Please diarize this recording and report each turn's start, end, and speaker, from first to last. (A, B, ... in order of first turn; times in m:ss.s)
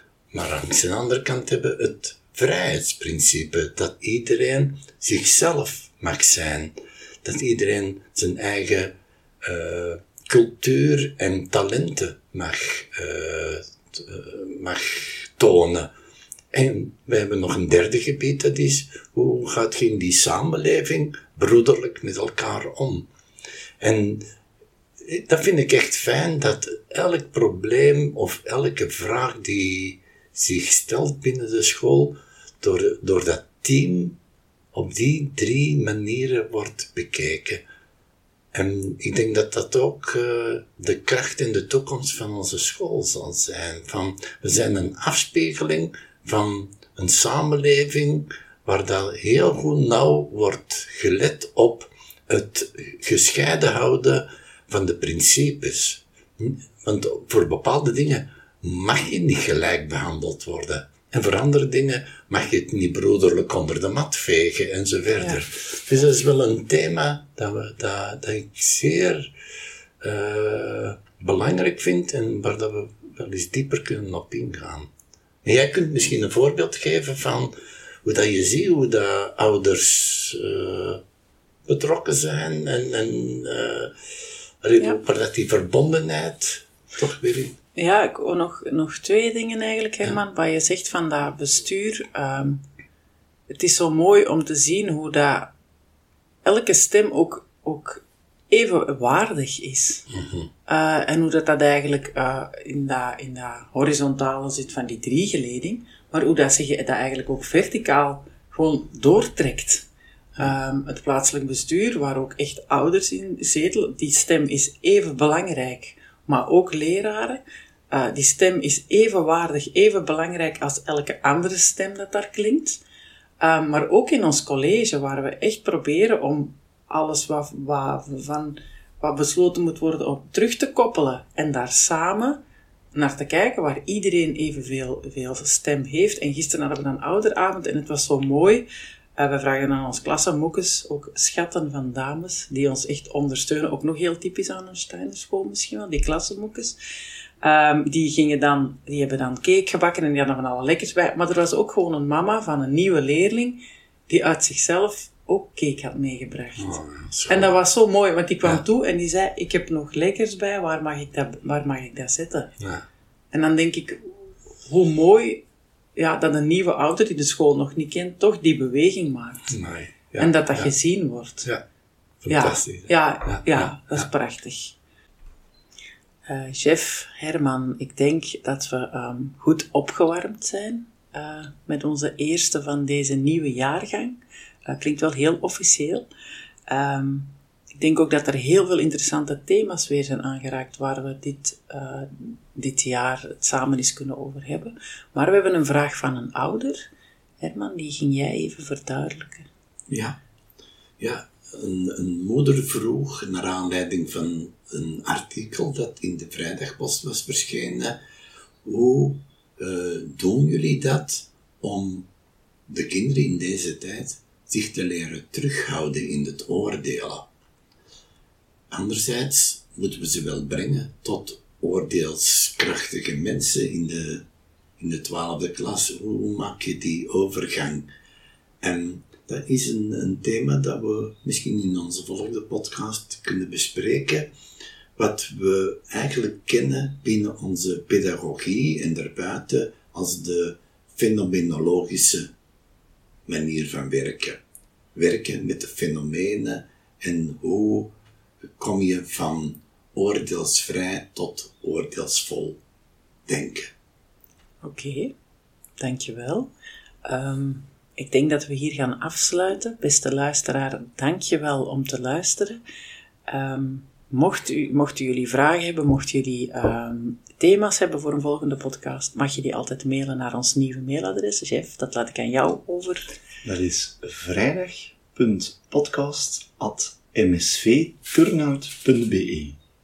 0:00.3-0:15.9 A
0:16.5-0:23.1 A
0:23.8-0:24.2 A
0:25.0-0:34.2 A
0:34.7-0:37.6 A
0:38.5-1:09.3 A
1:10.0-1:14.9 A
1:15.4-1:17.5 A
1:18.0-1:21.0 A
1:21.7-1:23.9 A
1:24.6-1:27.6 A
1:27.8-1:32.6 B
1:33.5-1:35.5 B
1:36.4-1:40.0 B
1:40.1-1:40.5 A
1:40.7-1:57.4 B
1:57.9-2:02.8 B
2:03.4-2:12.4 B
2:12.9-2:18.6 B
2:19.2-2:26.8 B
2:27.4-2:42.5 B
2:36.6-2:37.5 A
2:42.6-2:42.8 A
2:43.3-2:45.4 B
2:45.9-2:49.6 B
2:49.5-2:50.7 A
2:50.2-2:51.5 B
2:52.2-2:54.1 A
2:52.3-2:54.8 B
2:56.2-3:06.0 B
3:06.7-3:19.5 B
3:19.9-3:20.2 A
3:21.0-3:28.0 A
3:28.6-3:32.1 A
3:32.7-3:37.3 A
3:38.7-3:44.2 A
3:44.8-3:47.9 A
3:48.6-3:54.3 A
3:55.0-4:02.3 A
4:03.3-4:04.4 A
4:04.9-4:07.9 A
4:08.6-4:12.6 A
4:13.2-4:13.7 A
4:14.6-4:15.1 B
4:15.8-4:16.5 B
4:17.0-4:22.6 B
4:23.3-4:33.1 B
4:33.4-4:39.6 C